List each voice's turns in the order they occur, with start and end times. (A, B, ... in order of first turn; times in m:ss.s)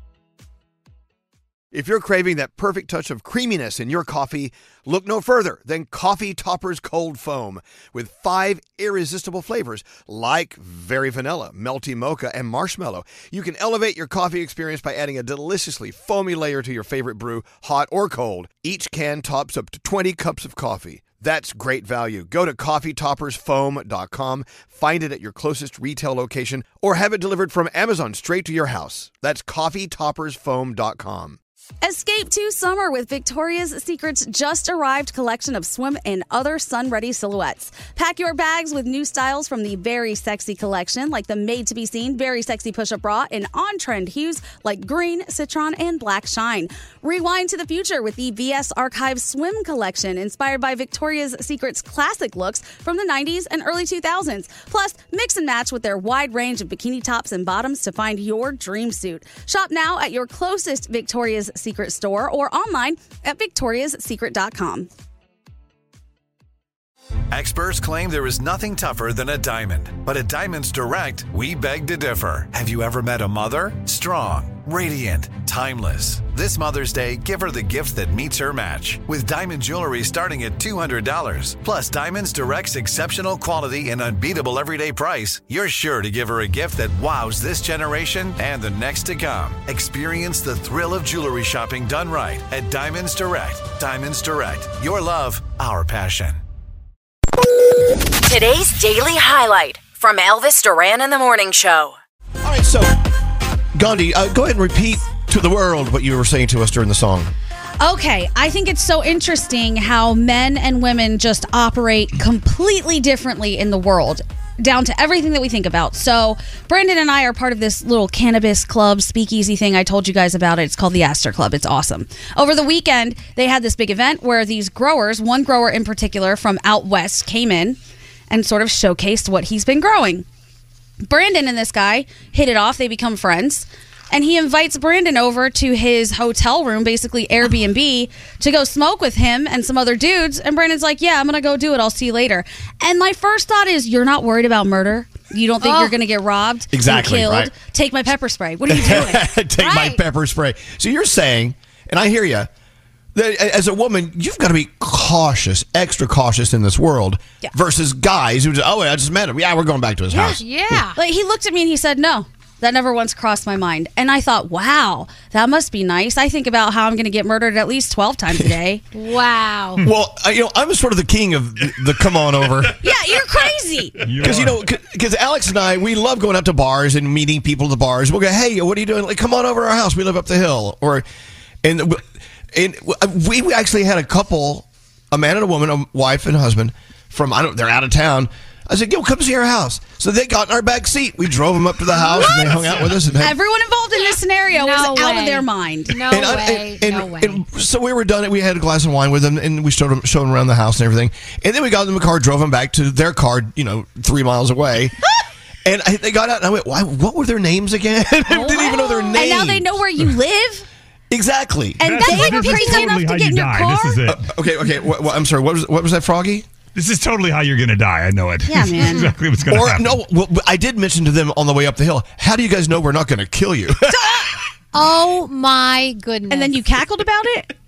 0:01.7-0:31.4 A
0:31.8-1:04.9 B
1:07.3-1:36.4 C
1:38.2-1:42.0 D
1:42.4-1:43.0 A
1:43.7-1:47.3 A
1:47.8-2:07.8 B
2:08.3-2:10.2 B
2:11.0-2:29.3 B
2:25.6-2:25.9 E
2:26.7-2:27.5 A
2:28.7-2:32.5 A
2:29.6-2:30.0 E
2:33.1-2:40.8 A
2:40.1-2:40.4 B
2:40.3-2:41.0 E
2:40.9-2:48.8 B
2:48.9-2:49.8 E
2:49.8-2:52.9 A
2:52.8-2:54.0 B
2:54.0-2:54.6 F
2:54.2-3:01.0 A
3:01.6-3:13.4 A
3:12.2-3:15.9 B
3:14.5-3:17.4 E
3:16.1-3:24.9 A
3:25.6-3:29.8 A
3:28.3-3:30.7 B
3:31.1-3:31.8 A
3:31.8-3:34.2 F
3:31.8-3:34.0 B
3:32.4-3:32.8 E
3:34.1-3:36.4 A
3:36.7-3:40.0 F
3:38.5-3:39.1 B
3:39.5-3:44.2 A
3:43.9-3:44.3 B
3:44.7-3:46.6 E
3:46.3-3:47.5 B